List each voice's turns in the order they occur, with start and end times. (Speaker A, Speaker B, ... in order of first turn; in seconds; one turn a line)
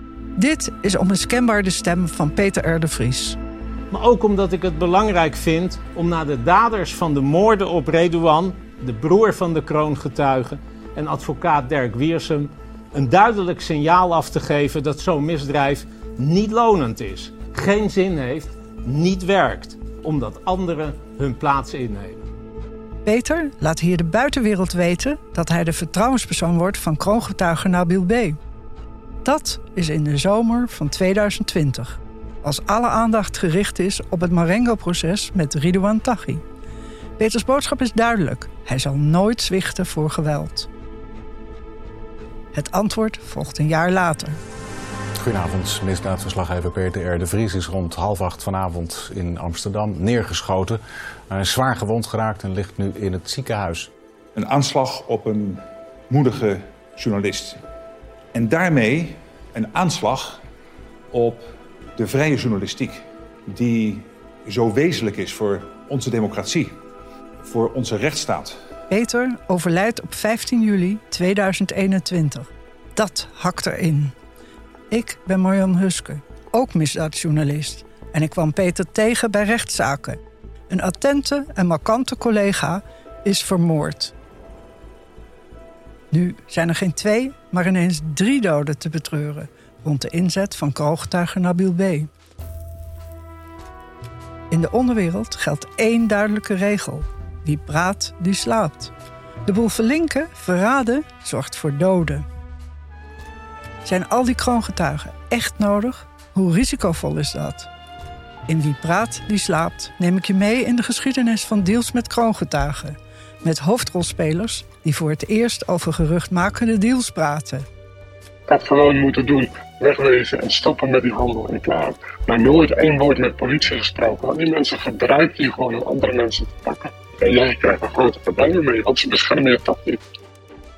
Speaker A: 0.4-3.4
Speaker B: 3.9-22.2
Speaker A: 23.0-28.4
Speaker A: 29.2-36.4
Speaker A: 37.2-40.7
Speaker A: 42.5-44.4
Speaker C: 45.2-53.9
Speaker D: 54.4-57.6
Speaker D: 58.3-60.4
Speaker D: 61.1-66.7
Speaker D: 67.4-68.6
Speaker A: 68.9-74.1
Speaker A: 74.9-80.2
Speaker A: 80.7-84.1
Speaker A: 86.1-92.1
Speaker A: 94.5-98.9
Speaker A: 99.5-102.3
Speaker A: 103.8-107.7
Speaker A: 108.5-117.7
Speaker E: 118.5-130.0